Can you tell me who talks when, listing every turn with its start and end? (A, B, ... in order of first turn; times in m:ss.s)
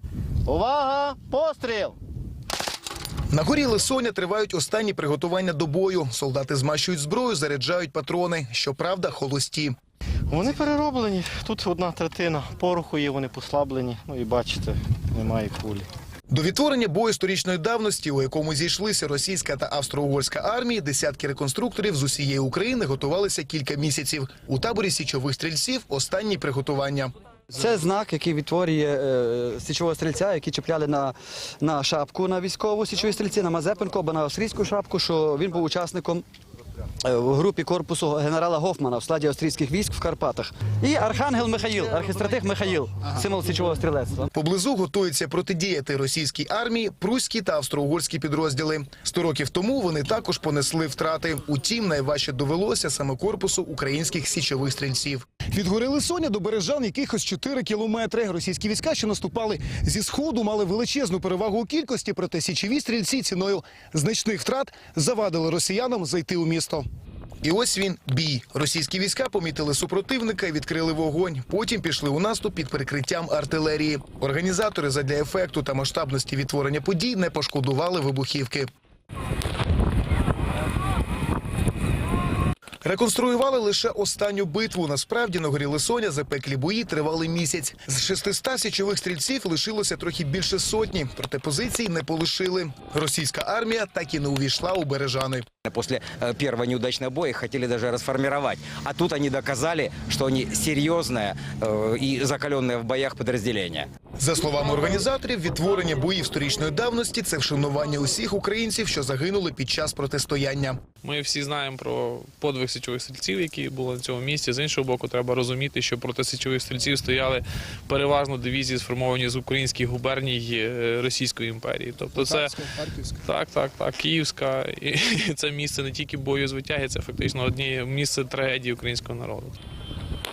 0:00.5-0:02.0 A
0:03.3-0:09.8 B
0:10.3-0:15.9 A
0:16.3-0:27.1 B
0:27.5-0:36.2 C
0:37.0-0:44.3 C
0:44.4-1:06.8 B
1:07.4-1:18.7 B
1:22.8-1:35.5 B
1:35.7-1:43.9 D
1:44.2-1:50.8 B
1:51.0-2:09.6 E